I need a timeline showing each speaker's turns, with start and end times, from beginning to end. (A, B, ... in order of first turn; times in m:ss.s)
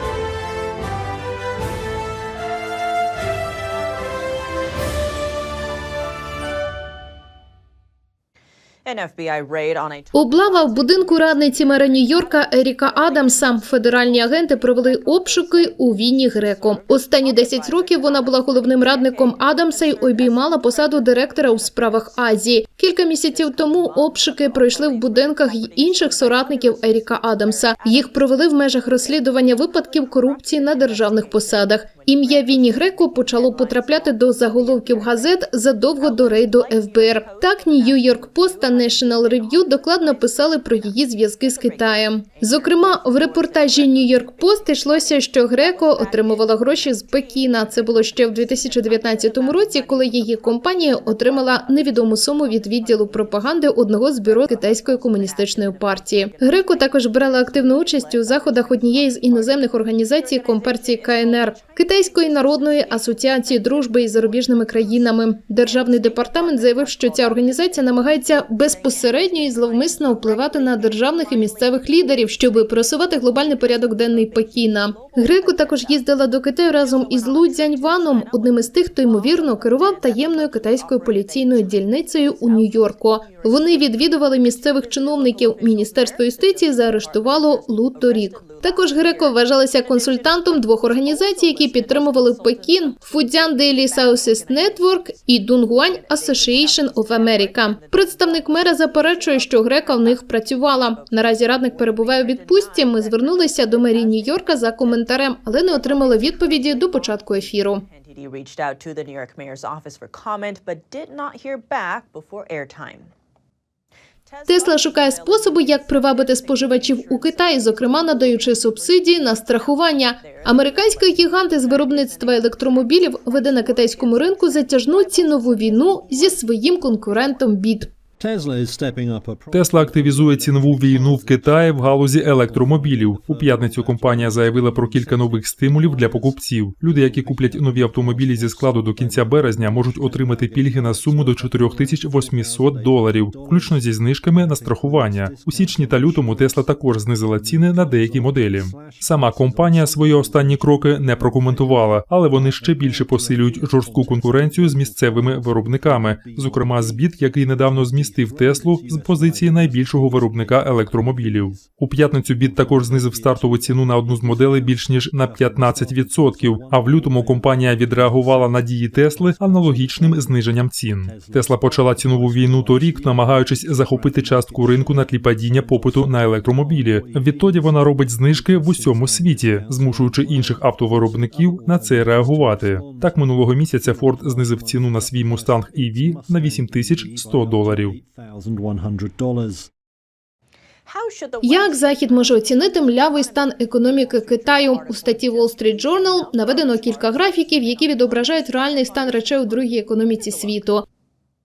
0:08.9-0:10.8 A
0:10.1-1:47.9 B
0:24.5-0:26.5 A
0:30.9-0:31.2 A
0:32.4-0:34.1 A
0:34.6-0:35.0 A
0:36.8-0:40.4 A
0:42.5-0:44.2 A
0:45.7-0:46.6 A
0:47.3-0:51.0 A
0:52.8-0:53.1 A
0:54.5-0:55.4 A
0:56.4-0:59.4 A
1:00.3-1:01.7 A
1:06.0-1:06.4 A
1:07.0-1:07.7 A
1:10.0-1:10.6 A
1:15.0-1:15.8 A
1:17.1-1:18.4 A
1:19.2-1:21.5 A
1:28.3-1:28.9 A
1:39.6-1:39.8 A
1:42.6-1:43.3 A
1:47.9-1:53.1 A
1:54.4-1:55.4 A
1:54.4-2:07.9 B
1:57.7-1:58.2 A
2:01.9-2:02.2 A
2:05.0-2:05.8 A
2:09.5-3:08.0 C
3:10.9-3:13.1 A
3:11.4-3:20.8 B
3:14.2-3:16.9 A